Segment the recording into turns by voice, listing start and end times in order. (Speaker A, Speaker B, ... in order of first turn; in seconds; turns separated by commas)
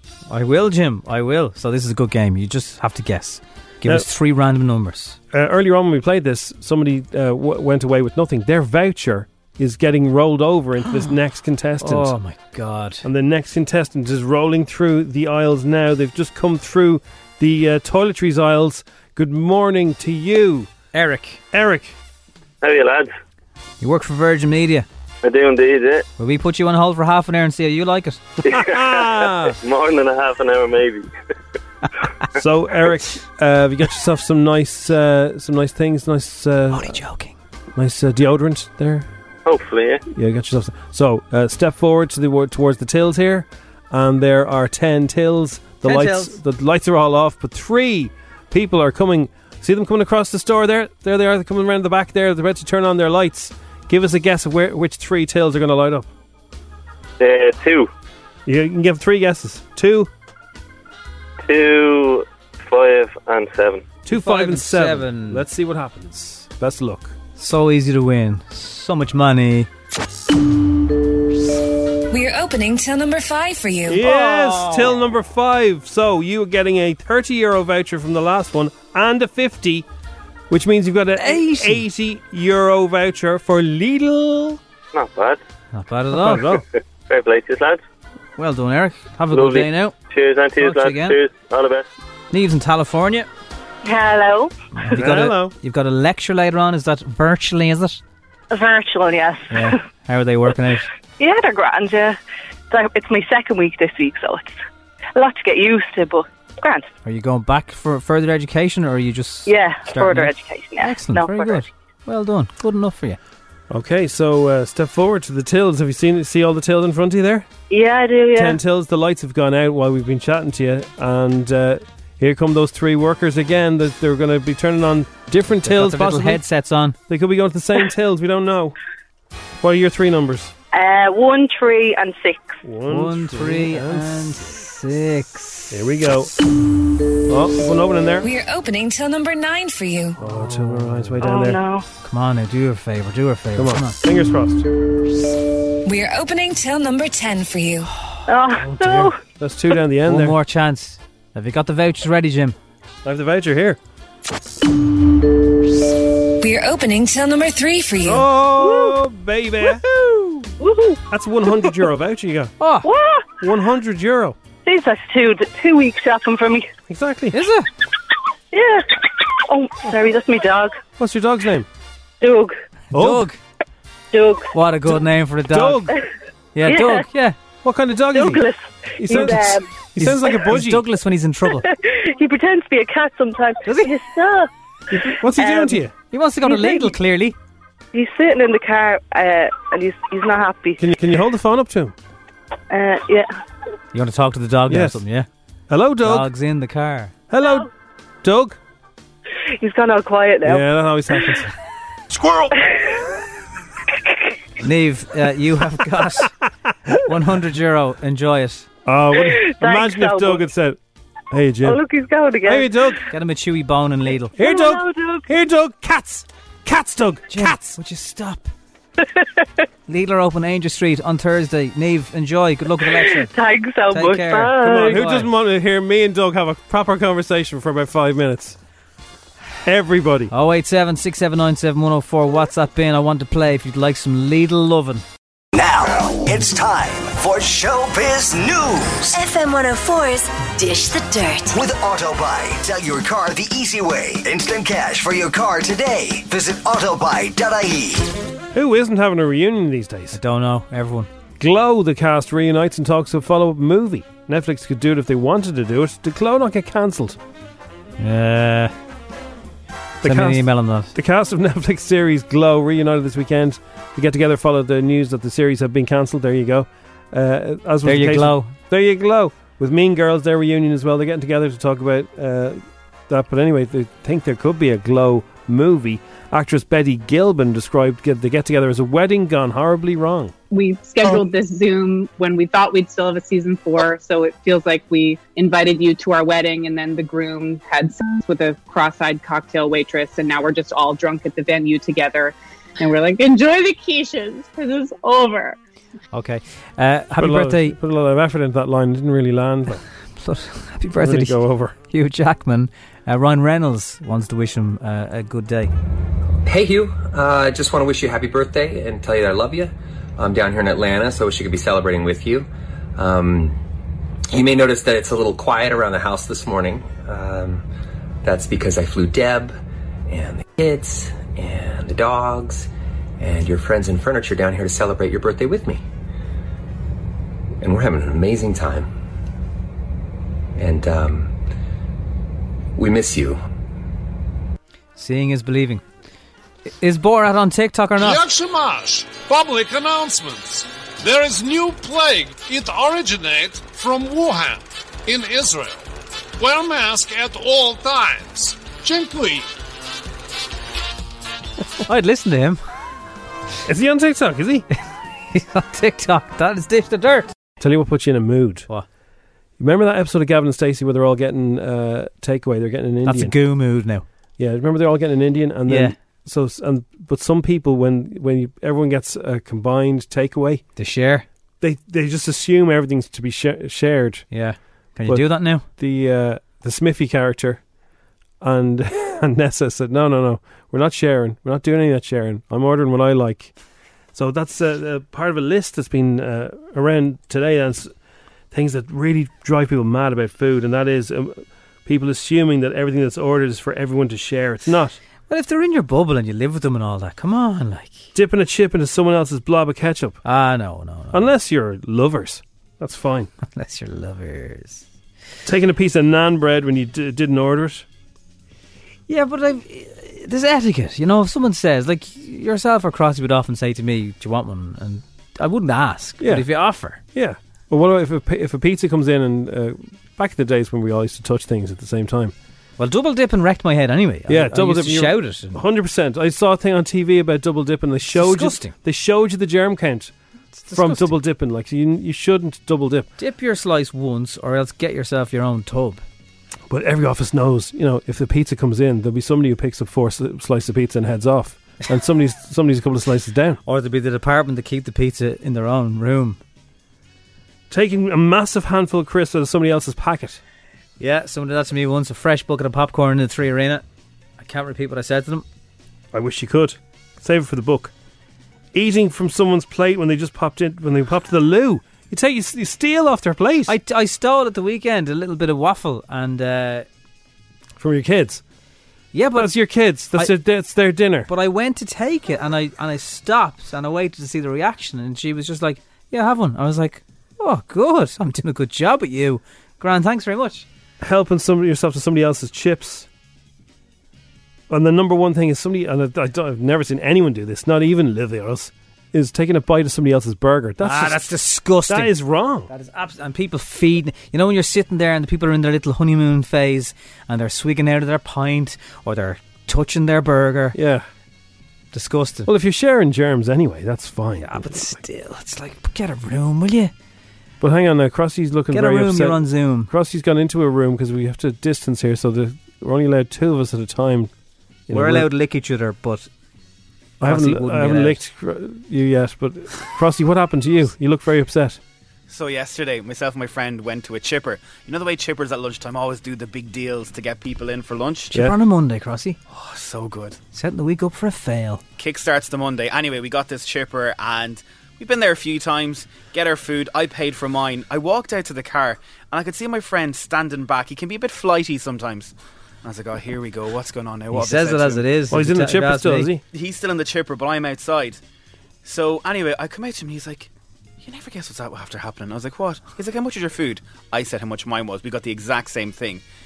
Speaker A: 0.3-5.2, Speaker B: 5.3-12.1, Speaker A: 10.8-11.1, Speaker A: 11.8-13.1, Speaker B: 13.0-20.7, Speaker A: 20.9-21.4, Speaker B: 21.5-21.9, Speaker C: 22.6-23.1, Speaker A: 23.8-24.9, Speaker C: 25.2-26.1, Speaker A: 26.2-28.2, Speaker B: 28.5-29.6, Speaker C: 28.5-28.9, Speaker C: 29.6-31.1, Speaker B: 32.4-37.0, Speaker A: 36.7-37.4, Speaker B: 37.8-39.1, Speaker C: 39.5-40.0, Speaker B: 40.1-56.1, Speaker A: 45.8-46.4, Speaker C: 57.2-57.9, Speaker B: 58.5-60.1, Speaker C: 61.5-63.9, Speaker B: 64.0-67.2, Speaker A: 64.1-65.5, Speaker A: 67.4-69.7, Speaker D: 72.1-74.0, Speaker B: 73.9-79.9, Speaker A: 74.0-75.0, Speaker B: 80.5-84.6, Speaker A: 81.2-81.9, Speaker C: 84.9-85.4, Speaker A: 85.7-86.6, Speaker B: 86.1-86.6, Speaker C: 87.1-87.8, Speaker A: 88.4-90.0, Speaker C: 89.3-91.8, Speaker A: 90.6-91.2, Speaker A: 92.3-93.3, Speaker E: 93.8-94.5, Speaker A: 94.8-98.0, Speaker B: 95.0-95.5, Speaker E: 98.5-99.8, Speaker A: 99.5-100.9, Speaker E: 101.2-102.2, Speaker E: 102.7-104.6, Speaker E: 105.2-106.9, Speaker A: 107.0-113.2, Speaker E: 109.5-111.7, Speaker B: 113.7-117.5, Speaker E: 117.7-118.6, Speaker B: 118.3-126.4, Speaker A: 125.6-127.0, Speaker B: 127.1-128.8, Speaker B: 129.6-130.5, Speaker E: 130.7-132.6, Speaker B: 132.6-134.4, Speaker A: 132.9-135.8, Speaker B: 135.7-136.3, Speaker B: 137.3-138.3, Speaker D: 138.2-140.2, Speaker B: 140.2-141.6, Speaker E: 141.2-141.8, Speaker A: 142.0-144.0, Speaker B: 143.6-144.6, Speaker D: 145.8-147.9, Speaker E: 148.3-149.2, Speaker B: 148.6-150.4, Speaker A: 150.1-152.6, Speaker B: 153.1-153.8, Speaker D: 156.4-158.3, Speaker B: 158.0-159.8, Speaker E: 158.6-159.0, Speaker E: 160.6-161.7, Speaker B: 161.1-162.5, Speaker A: 162.6-162.9, Speaker E: 162.8-163.3, Speaker B: 163.4-164.4, Speaker E: 164.7-166.7, Speaker B: 166.9-167.4, Speaker A: 167.3-167.7, Speaker E: 168.5-170.8, Speaker B: 171.0-171.7, Speaker E: 172.2-172.6, Speaker A: 172.9-173.4, Speaker B: 172.9-173.3, Speaker E: 174.1-174.5, Speaker A: 174.5-175.9, Speaker B: 175.5-175.9, Speaker A: 176.6-177.4, Speaker E: 176.7-177.1, Speaker B: 177.6-178.4, Speaker E: 178.1-179.7, Speaker B: 179.0-180.8, Speaker A: 180.0-181.7, Speaker E: 181.6-185.8, Speaker A: 183.7-183.9, Speaker B: 184.9-185.9, Speaker A: 186.1-187.4, Speaker E: 186.4-186.9, Speaker E: 187.9-190.8, Speaker B: 190.8-191.9, Speaker E: 192.7-193.3, Speaker A: 193.9-195.3, Speaker B: 194.7-195.0, Speaker B: 195.7-196.3, Speaker A: 196.0-197.1, Speaker B: 197.3-197.7, Speaker B: 198.2-198.6, Speaker E: 199.6-200.7, Speaker B: 200.4-201.5, Speaker A: 204.6-206.3, Speaker A: 207.1-208.7, Speaker B: 208.9-210.8, Speaker E: 209.2-210.4, Speaker B: 211.3-211.8, Speaker E: 211.6-212.9, Speaker B: 212.4-213.0, Speaker A: 213.1-214.4, Speaker E: 214.4-215.3, Speaker B: 214.4-217.7, Speaker A: 217.3-218.5, Speaker E: 219.0-219.4, Speaker A: 219.9-223.3, Speaker E: 222.8-225.1, Speaker A: 223.9-225.3, Speaker B: 224.6-228.6, Speaker B: 229.7-230.3, Speaker A: 230.3-235.0, Speaker F: 235.5-239.2, Speaker G: 239.1-241.6, Speaker F: 241.5-248.1, Speaker B: 248.5-250.2, Speaker A: 250.1-251.1, Speaker B: 251.4-257.2, Speaker A: 258.0-258.7, Speaker B: 260.0-280.3, Speaker A: 260.0-260.9, Speaker A: 267.9-268.5, Speaker H: 280.5-295.6, Speaker A: 296.1-297.8, Speaker B: 297.2-299.8, Speaker A: 300.2-305.7, Speaker B: 301.0-301.8, Speaker I: 306.4-313.6, Speaker I: 314.3-317.7, Speaker I: 318.2-325.8, Speaker I: 327.6-328.9, Speaker I: 330.6-331.4, Speaker I: 332.8-333.4, Speaker A: 335.0-335.8, Speaker A: 336.7-338.2, Speaker J: 338.0-345.9, Speaker J: 346.4-349.5, Speaker A: 351.9-352.6, Speaker B: 353.7-354.7, Speaker A: 355.3-357.3, Speaker B: 357.6-358.7, Speaker B: 359.6-363.4, Speaker A: 363.1-364.1, Speaker B: 364.4-370.6, Speaker A: 365.7-366.0, Speaker A: 370.8-371.2, Speaker B: 371.6-374.3, Speaker A: 374.3-375.7, Speaker B: 375.1-377.6, Speaker B: 378.4-383.5, Speaker B: 384.1-387.9, Speaker B: 388.5-395.0, Speaker A: 395.3-398.1, Speaker B: 398.1-400.2, Speaker A: 400.2-401.3, Speaker B: 401.1-403.3, Speaker A: 403.4-404.9, Speaker B: 405.5-407.9, Speaker A: 409.1-417.0, Speaker B: 416.2-416.5, Speaker B: 417.1-422.3, Speaker A: 422.8-425.6, Speaker B: 424.3-430.1, Speaker A: 428.1-428.8, Speaker A: 430.6-431.2, Speaker B: 430.7-433.1, Speaker A: 433.2-436.0, Speaker B: 436.7-443.6, Speaker A: 443.7-446.4, Speaker B: 447.7-450.4, Speaker A: 451.0-453.8, Speaker A: 454.4-455.4, Speaker B: 456.1-457.9, Speaker B: 458.7-463.7, Speaker A: 463.7-466.9, Speaker B: 467.8-468.4, Speaker A: 469.1-469.6, Speaker B: 469.4-471.3, Speaker A: 471.3-480.7, Speaker B: 481.0-483.1, Speaker B: 484.7-491.3, Speaker A: 490.8-492.1, Speaker B: 491.9-492.7, Speaker A: 492.7-500.8, Speaker B: 500.7-501.1, Speaker A: 501.9-502.5, Speaker B: 502.5-505.0, Speaker A: 504.4-506.9, Speaker B: 507.6-514.3, Speaker A: 508.7-509.9, Speaker B: 514.9-515.3, Speaker A: 514.9-516.3, Speaker B: 517.2-521.8, Speaker A: 517.2-518.2, Speaker K: 522.3-528.3, Speaker A: 528.3-529.4, Speaker K: 529.5-530.4, Speaker A: 530.5-531.8, Speaker K: 532.0-545.0, Speaker A: 544.3-546.3, Speaker B: 545.3-546.4, Speaker K: 546.5-548.2, Speaker K: 548.8-550.5, Speaker K: 551.0-556.2